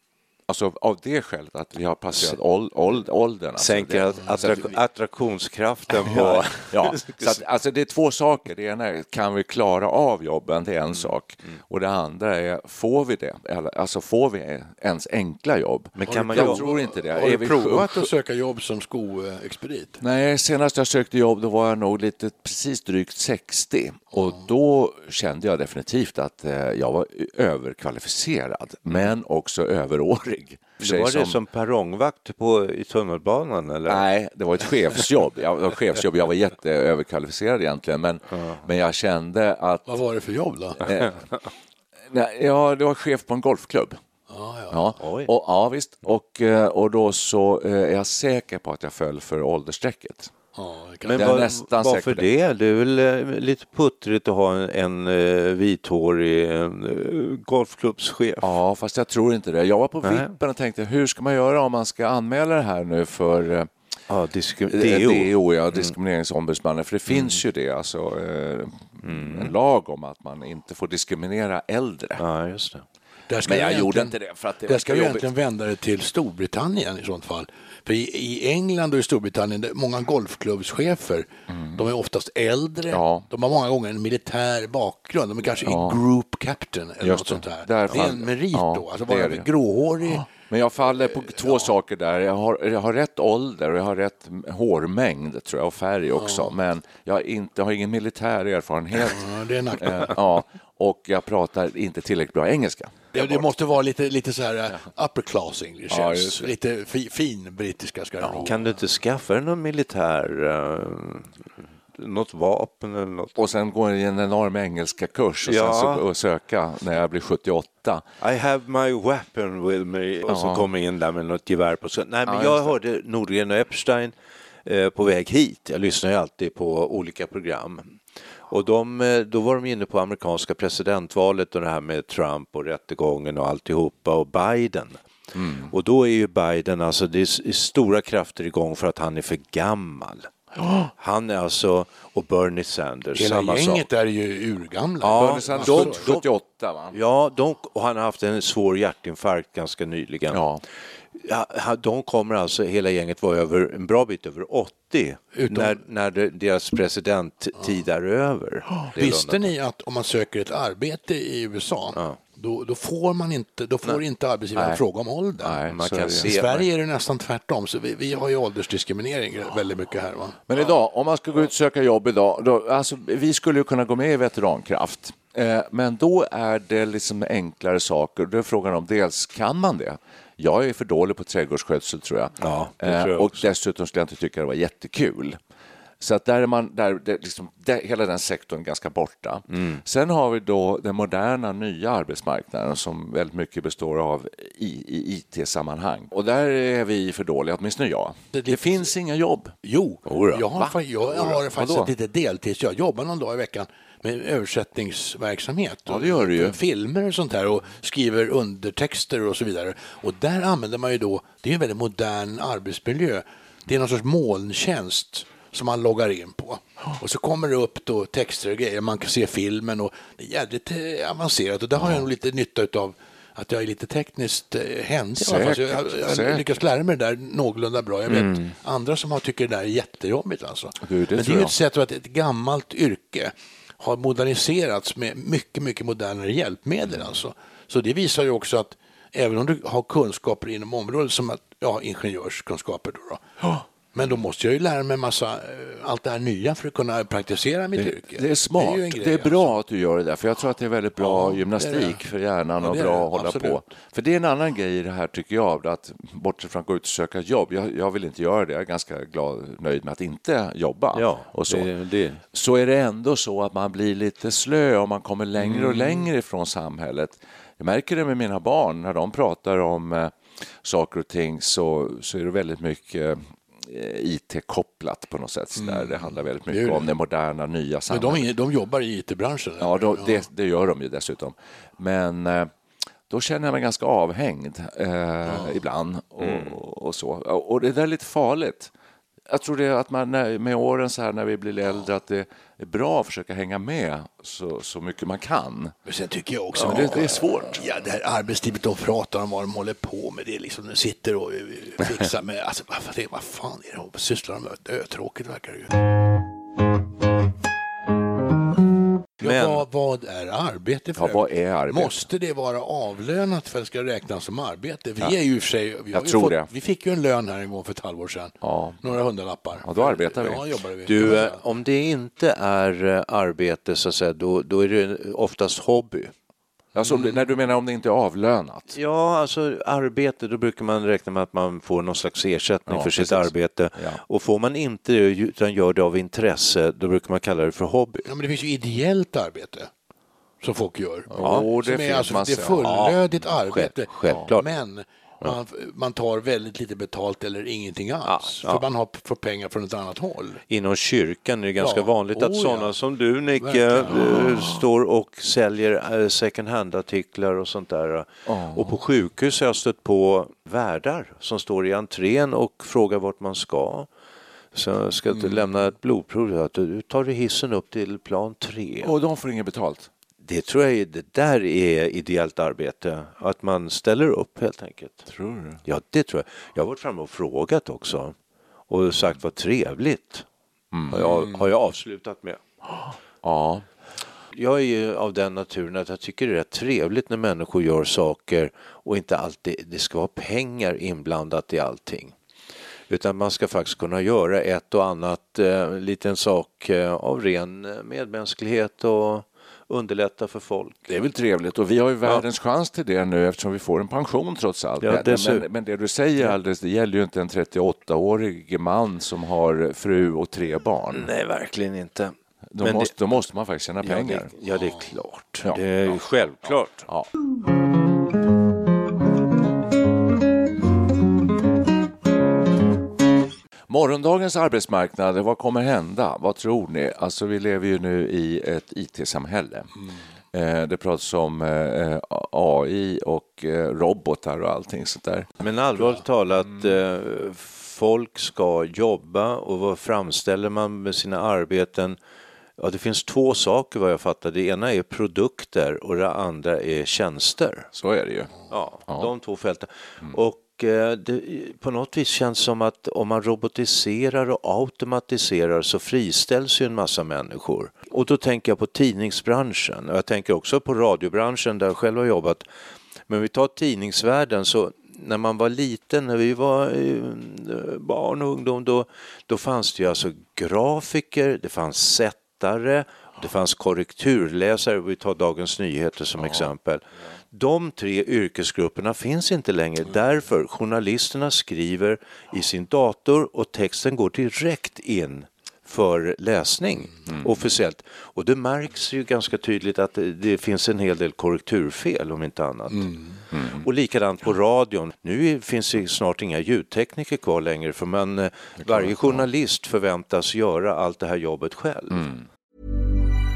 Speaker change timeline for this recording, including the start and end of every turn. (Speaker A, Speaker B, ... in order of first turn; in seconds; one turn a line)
Speaker A: 0.5-4.8
Speaker B: 3.6-7.4
Speaker A: 6.1-18.1
Speaker B: 16.0-16.6
Speaker C: 16.1-20.0
Speaker A: 20.0-31.4
Speaker B: 30.8-34.1
Speaker A: 33.9-40.0
Speaker B: 38.3-38.6
Speaker C: 39.9-40.8
Speaker A: 40.8-41.2
Speaker B: 40.9-41.5
Speaker A: 42.1-44.0
Speaker C: 44.3-45.0
Speaker A: 44.7-50.3
Speaker B: 45.0-45.3
Speaker C: 50.5-51.5
Speaker B: 51.0-58.6
Speaker A: 51.1-52.3
Speaker A: 58.4-63.7
Speaker B: 60.0-60.3
Speaker B: 64.1-65.3
Speaker A: 64.7-72.2
Speaker B: 67.1-67.4
Speaker B: 69.0-69.5
Speaker B: 72.2-72.8
Speaker C: 73.3-74.2
Speaker A: 73.5-75.3
Speaker C: 74.7-90.3
Speaker A: 81.5-81.9
Speaker A: 82.9-83.3
Speaker A: 85.6-86.0
Speaker A: 87.0-89.5
Speaker A: 90.0-103.5
Speaker C: 91.2-91.7
Speaker C: 96.2-96.5
Speaker C: 99.1-100.2
Speaker C: 103.1-108.8
Speaker A: 105.9-106.5
Speaker B: 108.4-113.3
Speaker A: 113.4-118.0
Speaker B: 115.5-116.0
Speaker B: 118.2-135.0
Speaker A: 120.3-120.7
Speaker A: 122.3-122.8
Speaker A: 135.3-135.7
Speaker B: 135.7-140.3
Speaker A: 140.6-140.9
Speaker B: 141.0-143.8
Speaker C: 143.2-146.1
Speaker B: 145.0-146.3
Speaker A: 145.2-146.9
Speaker B: 146.9-150.4
Speaker A: 150.3-150.6
Speaker B: 151.2-159.5
Speaker C: 155.3-155.8
Speaker C: 158.9-165.6
Speaker B: 161.9-162.2
Speaker A: 164.6-164.8
Speaker A: 165.4-166.3
Speaker B: 165.7-166.7
Speaker C: 166.2-170.4
Speaker A: 170.5-185.4
Speaker B: 182.4-183.5
Speaker A: 186.0-199.6
Speaker B: 189.5-189.8
Speaker C: 198.3-198.9
Speaker C: 199.6-243.2
Speaker B: 200.1-200.4
Speaker A: 200.6-201.9
Speaker A: 205.9-206.6
Speaker A: 221.8-222.1
Speaker A: 225.2-226.6
Speaker B: 228.1-228.6
Speaker A: 230.8-231.6
Speaker C: 243.9-249.6
Speaker A: 247.8-261.7
Speaker C: 251.0-252.0
Speaker C: 252.6-253.6
Speaker B: 260.9-262.2
Speaker A: 262.3-278.3
Speaker B: 265.5-265.8
Speaker C: 275.6-276.9
Speaker C: 277.9-280.2
Speaker A: 279.6-282.5
Speaker A: 283.1-288.7
Speaker B: 286.2-286.6
Speaker A: 289.3-295.7
Speaker C: 295.9-305.7
Speaker A: 296.6-297.6
Speaker C: 309.2-321.4
Speaker B: 309.2-309.6
Speaker A: 310.9-312.1
Speaker A: 315.9-316.5
Speaker A: 318.4-319.0
Speaker A: 319.6-321.2
Speaker B: 320.9-326.1
Speaker A: 326.8-328.8
Speaker B: 328.7-338.1
Speaker A: 332.7-334.0
Speaker C: 338.1-339.7
Speaker C: 340.4-350.4
Speaker A: 341.1-342.9
Speaker B: 341.2-341.5
Speaker B: 342.6-344.5
Speaker A: 344.1-344.3
Speaker B: 348.1-348.6
Speaker B: 350.5-363.9
Speaker C: 351.6-352.8
Speaker C: 353.4-354.3
Speaker A: 358.3-358.8
Speaker B: 364.5-368.9
Speaker A: 368.8-369.9
Speaker B: 370.2-375.1
Speaker A: 375.1-375.6
Speaker B: 375.6-378.2
Speaker B: 378.7-380.3
Speaker A: 380.7-381.2
Speaker B: 380.9-382.4
Speaker A: 382.9-383.7
Speaker B: 384.3-392.1
Speaker B: 392.9-400.9
Speaker A: 400.9-411.1
Speaker B: 404.8-405.5
Speaker B: 410.9-412.9
Speaker A: 412.5-414.3
Speaker B: 413.8-416.9
Speaker C: 414.5-414.9
Speaker A: 415.4-417.1
Speaker A: 423.7-429.7
Speaker A: 430.3-435.3
Speaker B: 435.4-442.0
Speaker B: 442.6-447.7
Speaker A: 447.7-448.3
Speaker B: 448.5-462.4
Speaker B: 463.1-492.9
Speaker A: 476.2-476.5
Speaker A: 487.1-487.4
Speaker C: 492.7-493.2
Speaker A: 493.3-493.6
Speaker B: 493.5-502.1
Speaker A: 498.6-499.2
Speaker A: 501.9-502.2